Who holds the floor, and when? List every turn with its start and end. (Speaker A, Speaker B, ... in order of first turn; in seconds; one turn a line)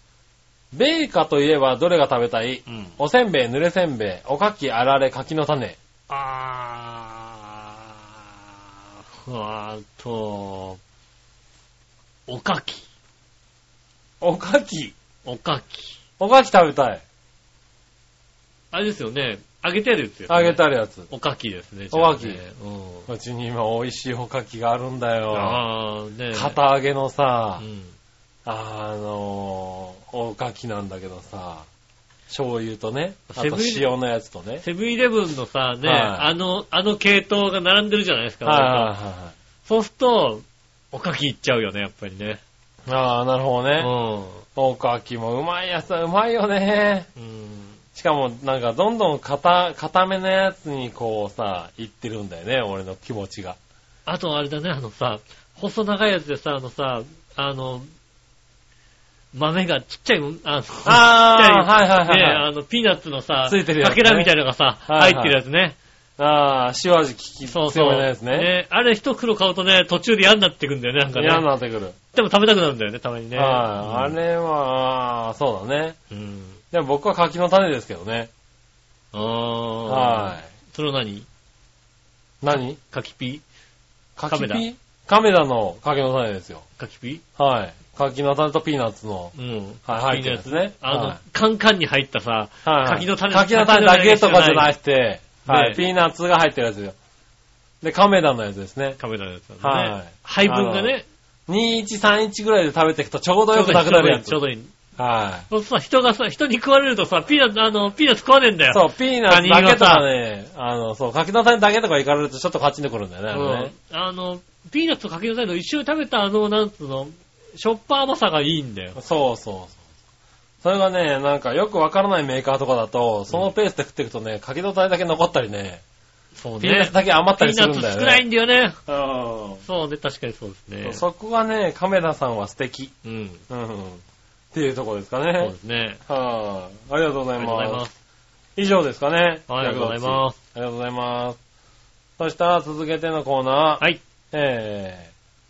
Speaker A: 0.7-5.8
Speaker B: 2.7-3.0
Speaker B: 6.1-10.8
Speaker B: 12.3-12.9
Speaker A: 14.2-14.9
Speaker B: 15.2-16.0
Speaker A: 16.2-17.0
Speaker B: 18.7-23.1
Speaker A: 20.3-21.1
Speaker A: 21.9-22.4
Speaker A: 23.1-25.6
Speaker B: 25.3-26.6
Speaker A: 26.3-27.6
Speaker B: 27.6-27.9
Speaker A: 28.5-31.7
Speaker A: 32.3-34.6
Speaker B: 33.3-33.9
Speaker B: 34.6-38.9
Speaker A: 35.8-36.3
Speaker A: 38.4-39.3
Speaker B: 39.6-42.4
Speaker A: 42.9-43.9
Speaker B: 43.8-44.4
Speaker A: 44.6-47.1
Speaker B: 47.2-47.8
Speaker A: 48.0-53.6
Speaker B: 54.1-57.9
Speaker B: 59.3-65.8
Speaker A: 60.9-62.5
Speaker A: 63.5-64.3
Speaker A: 64.9-65.4
Speaker A: 66.2-68.5
Speaker B: 67.5-71.5
Speaker A: 71.2-72.0
Speaker B: 72.1-74.2
Speaker A: 73.4-76.0
Speaker B: 76.1-76.6
Speaker A: 76.7-78.3
Speaker B: 79.1-81.3
Speaker A: 79.9-80.5
Speaker A: 82.4-82.8
Speaker B: 82.8-83.4
Speaker A: 84.2-86.6
Speaker B: 84.3-84.7
Speaker B: 86.8-87.2
Speaker A: 87.4-89.3
Speaker B: 89.3-94.7
Speaker A: 89.9-91.2
Speaker A: 92.7-97.0
Speaker B: 95.5-95.8
Speaker A: 97.8-99.0
Speaker B: 99.0-101.0
Speaker A: 99.6-100.9
Speaker A: 101.5-104.4
Speaker B: 103.5-104.7
Speaker A: 105.0-105.5
Speaker B: 105.5-110.1
Speaker A: 108.7-113.7
Speaker B: 113.3-119.0
Speaker A: 119.0-119.8
Speaker A: 120.6-125.8
Speaker B: 126.4-128.8
Speaker A: 126.6-128.2
Speaker A: 128.9-129.6
Speaker B: 129.6-131.0
Speaker A: 130.8-132.9
Speaker B: 133.0-133.4
Speaker A: 133.5-135.5
Speaker B: 135.4-136.0
Speaker A: 136.1-137.8
Speaker B: 137.4-138.0
Speaker A: 138.6-141.4
Speaker B: 139.5-140.4
Speaker A: 142.2-145.1